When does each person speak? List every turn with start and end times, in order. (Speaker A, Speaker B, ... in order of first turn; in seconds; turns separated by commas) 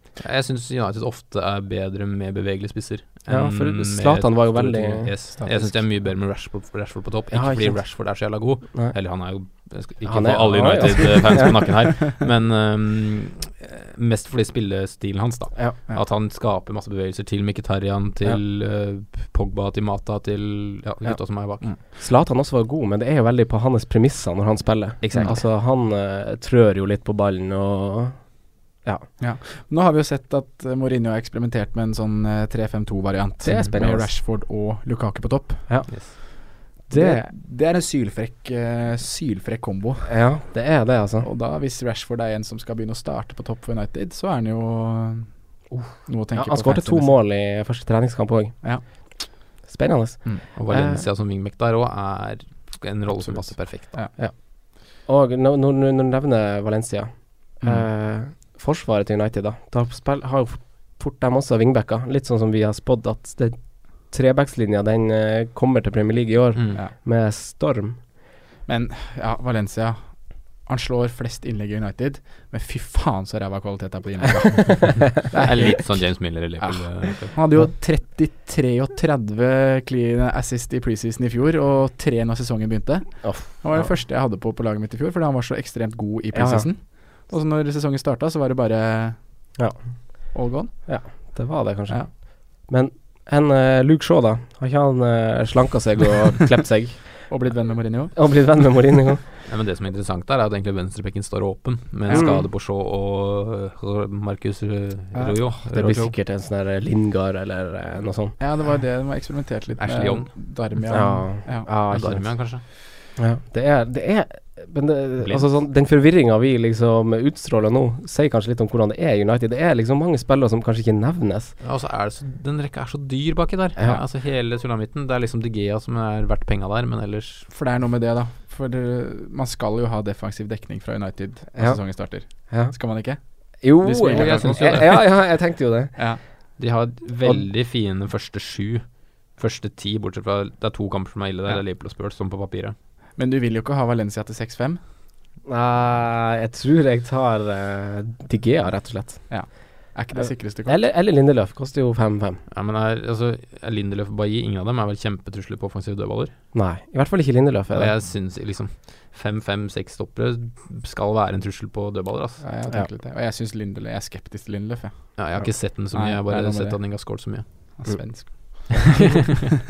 Speaker A: 0.2-21.7, Speaker B: 3.3-5.4, Speaker C: 5.4-6.0, Speaker B: 7.3-8.9, Speaker B: 10.1-11.6, Speaker B: 21.7-29.1, Speaker A: 25.0-25.4, Speaker C: 25.2-25.4, Speaker C: 29.2-35.7, Speaker B: 33.4-34.1, Speaker B: 35.7-37.3, Speaker A: 35.9-36.1, Speaker C: 36.9-40.1, Speaker B: 40.1-41.3, Speaker C: 41.2-47.2, Speaker B: 45.7-48.6, Speaker B: 49.6-51.0, Speaker A: 50.6-54.0, Speaker C: 53.2-54.1, Speaker B: 54.2-68.0, Speaker A: 66.6-66.8, Speaker C: 68.7-89.6, Speaker A: 75.3-77.4, Speaker B: 83.2-83.9, Speaker B: 86.3-86.7, Speaker B: 89.6-97.3, Speaker C: 90.3-91.3, Speaker C: 97.3-98.2, Speaker B: 98.2-99.2, Speaker A: 99.5-106.1, Speaker C: 102.1-102.3, Speaker B: 102.1-102.5, Speaker C: 105.1-105.4, Speaker B: 105.7-108.4, Speaker C: 108.4-111.7, Speaker A: 109.8-110.4, Speaker B: 110.9-112.6, Speaker A: 111.9-112.6, Speaker B: 113.2-121.5, Speaker A: 115.2-115.5, Speaker A: 121.6-127.5, Speaker C: 127.5-135.3, Speaker B: 131.6-132.7, Speaker B: 133.6-136.0, Speaker A: 134.1-135.0, Speaker C: 136.0-136.2, Speaker A: 136.6-142.8, Speaker C: 143.2-144.8, Speaker B: 145.5-149.3, Speaker C: 149.3-150.8, Speaker B: 150.2-152.4, Speaker A: 152.5-156.4, Speaker B: 156.5-157.9, Speaker A: 157.7-162.4, Speaker C: 162.4-169.3, Speaker A: 165.2-167.8, Speaker B: 167.9-168.6, Speaker A: 168.9-169.2